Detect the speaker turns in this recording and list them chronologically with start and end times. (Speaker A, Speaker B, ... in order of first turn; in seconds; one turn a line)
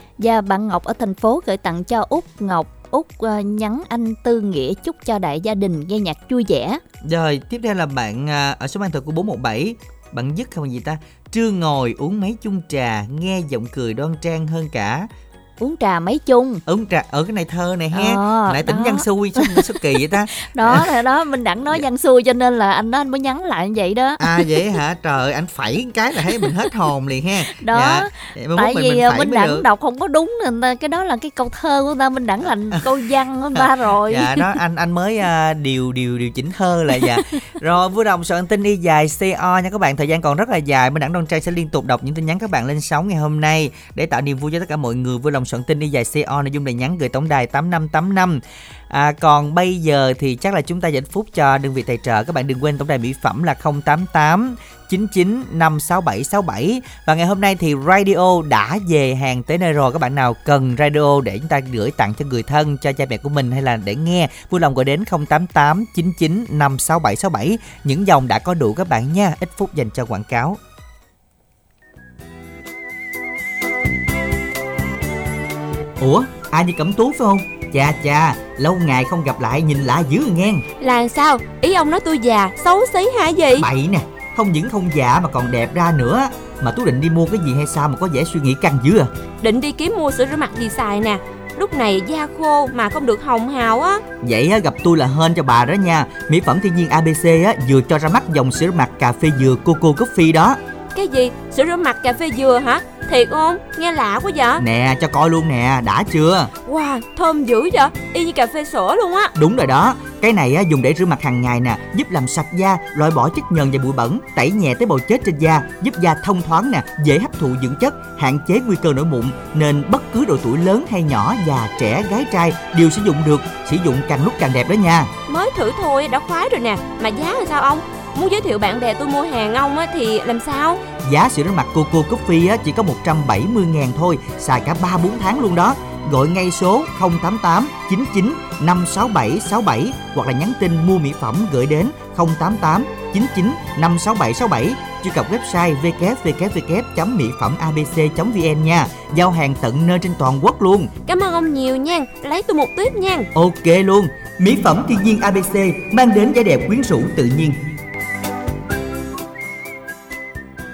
Speaker A: 0.2-6.8
Speaker B: 7.0-15.1
Speaker A: 15.6-16.6
Speaker B: 16.7-20.9
Speaker A: 17.9-24.2
Speaker B: 24.2-29.7
Speaker A: 27.6-34.5
Speaker B: 33.5-70.6
Speaker B: 76.0-80.7
Speaker C: 80.8-83.7
Speaker B: 83.6-89.1
Speaker C: 89.4-94.0
Speaker B: 94.2-100.6
Speaker C: 100.9-104.6
Speaker B: 104.6-106.5
Speaker C: 106.7-109.3
Speaker B: 109.3-125.1
Speaker C: 125.3-130.8
Speaker B: 131.0-150.9
Speaker C: 151.1-153.3
Speaker B: 153.3-157.6